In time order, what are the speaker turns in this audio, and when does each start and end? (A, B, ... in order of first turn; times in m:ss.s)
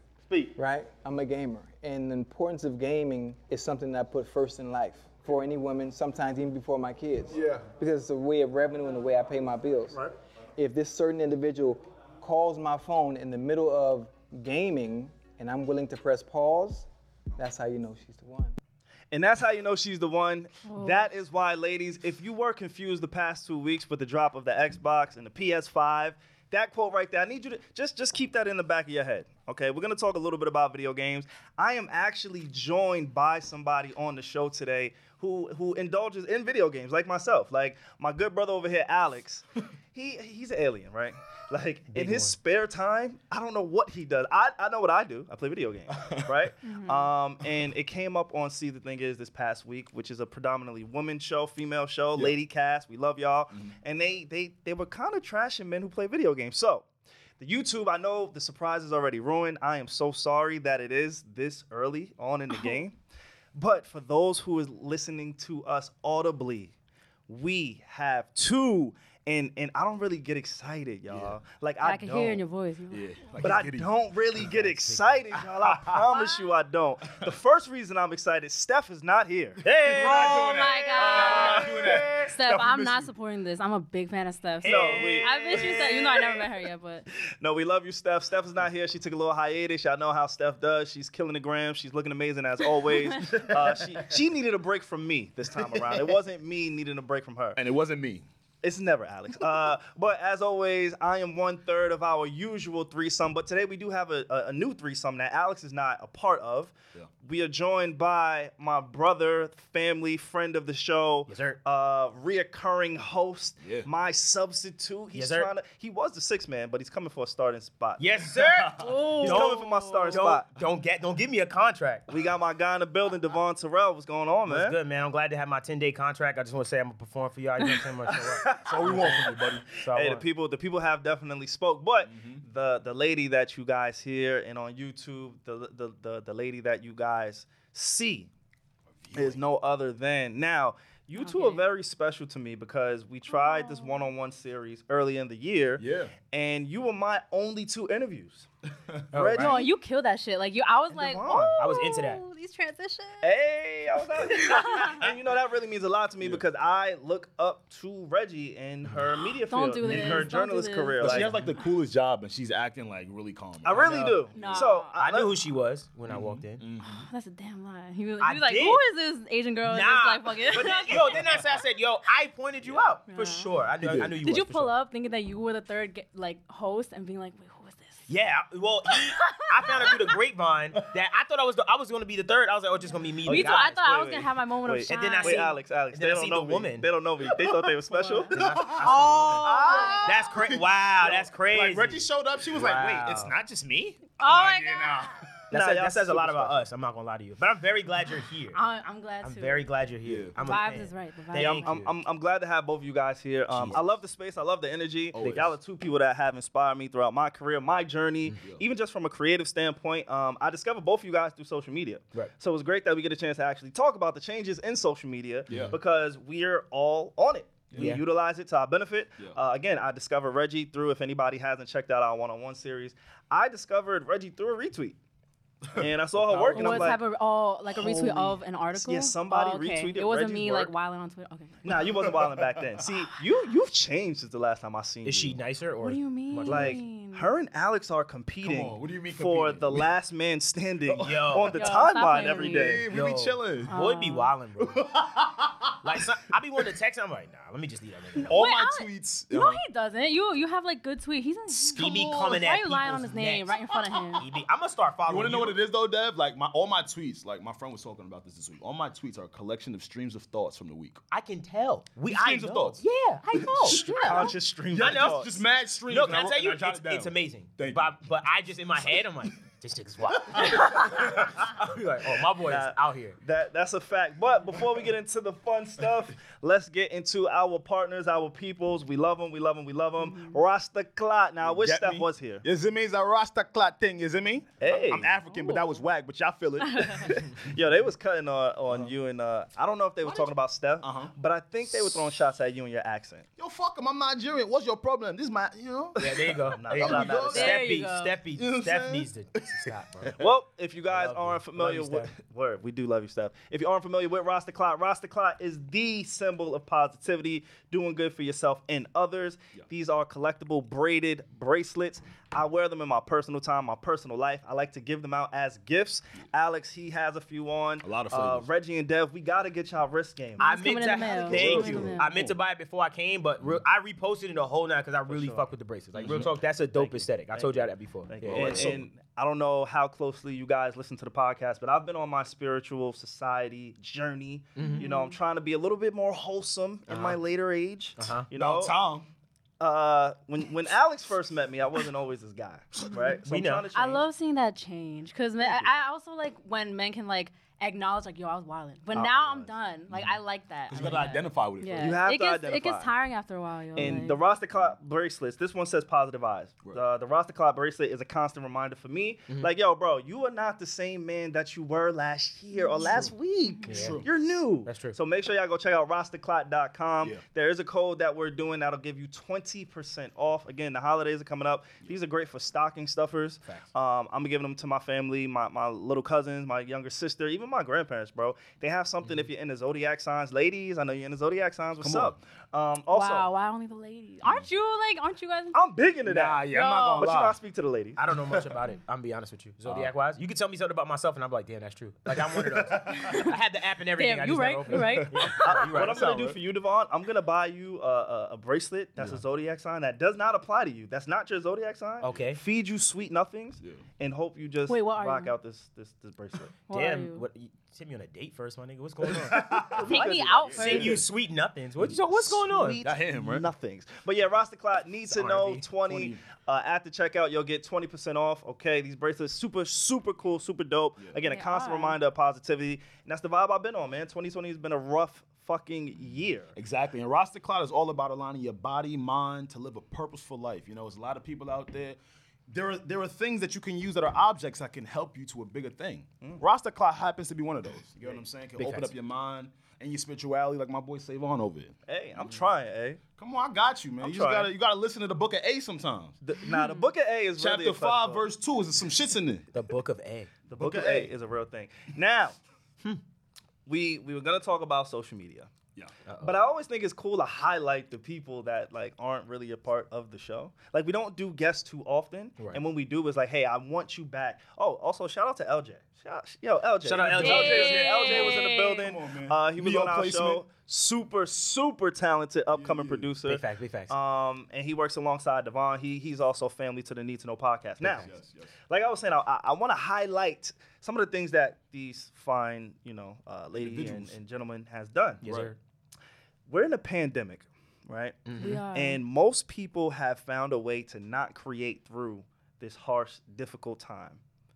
0:00.6-0:10.0 A
0:07.3-0:07.6 B
0:10.6-0:18.6 A
0:19.1-0:56.8 C
0:20.6-0:21.1 D
0:41.9-0:42.3 E
0:46.6-0:47.1 D
0:57.4-1:03.0 C
1:02.5-1:02.8 D
1:03.5-1:06.7 C
1:07.3-1:12.4 C
1:11.1-1:11.4 B
1:11.8-1:13.1 D
1:12.9-1:14.5 B
1:13.4-1:20.3 C
1:14.4-1:15.2 E
1:15.4-1:16.0 B
1:19.6-1:23.1 B
1:20.0-1:27.0 D
1:20.9-1:22.1 C
1:24.6-1:25.8 E
1:24.6-1:26.4 C
1:27.4-1:37.6 C
1:32.9-1:33.2 D
1:33.2-1:34.0 B
1:37.6-1:38.2 B
1:38.6-1:58.3 C
1:51.3-1:51.6 E
1:55.1-1:55.5 E
1:58.0-2:02.1 E
1:58.5-1:58.9 B
1:58.8-2:00.2 D
1:59.2-2:00.5 C
2:02.1-2:04.8 C
2:04.5-2:10.2 E
2:08.1-2:18.3 C
2:08.6-2:09.6 B
2:12.0-2:12.4 B
2:19.0-2:19.4 B
2:19.1-2:28.4 C
2:21.2-2:21.6 D
2:23.3-2:24.1 D
2:25.8-2:26.1 B
2:29.1-2:29.6 E
2:29.1-2:29.7 C
2:29.4-2:33.3 D
2:30.9-2:31.5 C
2:31.6-2:32.2 E
2:33.2-2:41.3 C
2:34.2-2:35.0 D
2:39.5-2:41.2 D
2:39.8-2:40.3 B
2:41.0-2:44.6 B
2:43.6-2:45.3 C
2:43.8-2:46.6 E
2:44.3-2:44.9 D
2:46.1-2:47.1 B
2:46.8-2:51.2 D
2:48.2-2:48.8 E
2:49.6-2:54.7 E
2:52.6-2:52.9 B
2:53.1-2:53.5 D
2:53.8-2:54.1 B
2:54.2-2:58.1 D
2:58.1-3:03.8 E
2:58.9-2:59.9 D
3:03.2-3:05.6 D
3:03.3-3:08.3 C
3:04.9-3:06.9 E
3:07.9-3:10.2 D
3:08.3-3:13.4 E
3:08.3-3:15.3 B
3:09.3-3:10.1 C
3:14.2-3:15.1 D
3:15.5-3:18.6 E
3:15.5-3:16.6 C
3:18.5-3:19.6 D
3:19.2-3:21.9 E
3:20.0-3:20.4 B
3:20.4-3:21.7 D
3:21.3-3:45.0 C
3:23.5-3:23.8 B
3:25.1-3:25.5 B
3:25.2-3:25.5 E
3:35.5-3:35.8 B
3:37.7-3:38.0 B
3:37.7-3:38.0 E
3:45.8-3:47.0 C
3:46.3-3:47.0 E
3:46.5-3:51.8 D
3:47.8-3:50.7 C
3:51.6-3:55.4 C
3:51.6-3:52.8 B
3:55.0-3:56.8 E
3:55.8-3:57.3 D
3:56.4-4:02.8 C
3:58.4-3:59.9 B
4:00.9-4:01.3 B
4:01.0-4:01.7 E
4:01.5-4:02.8 D
4:02.3-4:03.7 B
4:02.9-4:04.8 E
4:03.7-4:04.3 D
4:04.6-4:06.0 B
4:05.8-4:08.4 E
4:08.1-4:14.2 D
4:08.3-4:09.6 B
4:11.5-4:12.4 B
4:11.8-4:13.5 E
4:14.2-4:15.6 E
4:15.1-4:21.0 B
4:21.1-4:23.8 E
4:22.1-4:22.8 B
4:23.3-4:24.3 D
4:23.6-4:25.4 C
4:24.7-4:28.0 B
4:24.7-4:25.2 E
4:25.8-4:33.2 E
4:30.1-4:31.5 B
4:32.4-4:42.4 C
4:40.0-4:40.4 D
4:41.4-4:47.4 B
4:44.6-4:45.1 C
4:44.6-4:45.6 D
4:46.6-4:47.1 D
4:47.1-4:53.3 C
4:50.0-4:51.1 B
4:53.4-4:57.6 B
4:56.0-5:00.2 E
4:56.5-4:57.6 C
4:57.3-4:58.2 D
4:58.4-5:00.2 B
5:00.2-5:22.3 C
5:00.9-5:02.1 E
5:17.8-5:18.5 B
5:20.4-5:22.1 D
5:20.4-5:28.7 E
5:21.4-5:21.9 B
5:25.1-5:25.5 C
5:26.0-5:26.3 B
5:26.1-5:38.7 C
5:28.2-5:28.8 B
5:34.6-5:34.8 E
5:34.6-5:35.2 D
5:36.9-5:37.2 E
5:38.0-5:38.3 E
5:38.3-5:39.1 B
5:39.6-5:44.0 C
5:42.9-5:43.2 D
5:43.2-5:43.7 E
5:43.7-5:54.2 D
5:45.4-5:45.7 C
5:48.9-5:49.5 C
5:50.7-5:52.0 B
5:51.8-5:52.9 C
5:53.7-6:23.3 C
5:53.8-5:54.7 B
6:02.5-6:03.9 D
6:03.7-6:04.0 E
6:03.7-6:04.1 B
6:04.6-6:05.0 E
6:21.8-6:22.2 B
6:22.9-6:25.6 D
6:25.5-6:28.0 C
6:26.0-6:27.4 B
6:26.5-6:27.1 D
6:27.9-6:36.4 E
6:32.3-6:33.1 C
6:34.0-6:35.7 D
6:35.4-6:46.5 C
6:42.0-6:42.4 E
6:44.7-6:45.3 D
6:46.7-6:47.2 D
6:46.7-6:52.8 E
6:49.1-6:50.0 B
6:49.3-6:51.0 C
6:49.8-6:51.0 D
6:50.5-6:51.0 B
6:52.2-7:06.5 C
6:52.8-6:53.5 B
6:55.1-6:55.6 E
6:55.8-6:56.2 B
7:01.3-7:02.0 D
7:06.5-7:22.4 B
7:18.6-7:18.9 E
7:21.9-7:23.0 C
7:23.2-7:26.2 B
7:24.0-7:24.5 C
7:26.2-7:28.2 C
7:26.5-7:26.9 D
7:27.4-7:29.5 B
7:29.5-7:30.4 E
7:30.5-7:32.4 C
7:30.6-7:31.1 B
7:33.6-7:35.5 C
7:36.0-7:36.4 E
7:36.2-7:58.1 C
7:46.8-7:48.0 E
7:47.0-7:50.4 B
7:47.0-7:48.9 D
7:52.5-7:53.1 B
7:53.2-7:53.9 E
7:57.8-7:58.1 E
7:57.9-7:58.5 B
7:58.7-8:05.2 C
8:03.6-8:04.1 B
8:05.2-8:05.6 E
8:05.2-8:05.5 B
8:06.5-8:14.2 C
8:08.3-8:08.6 E
8:08.4-8:09.0 D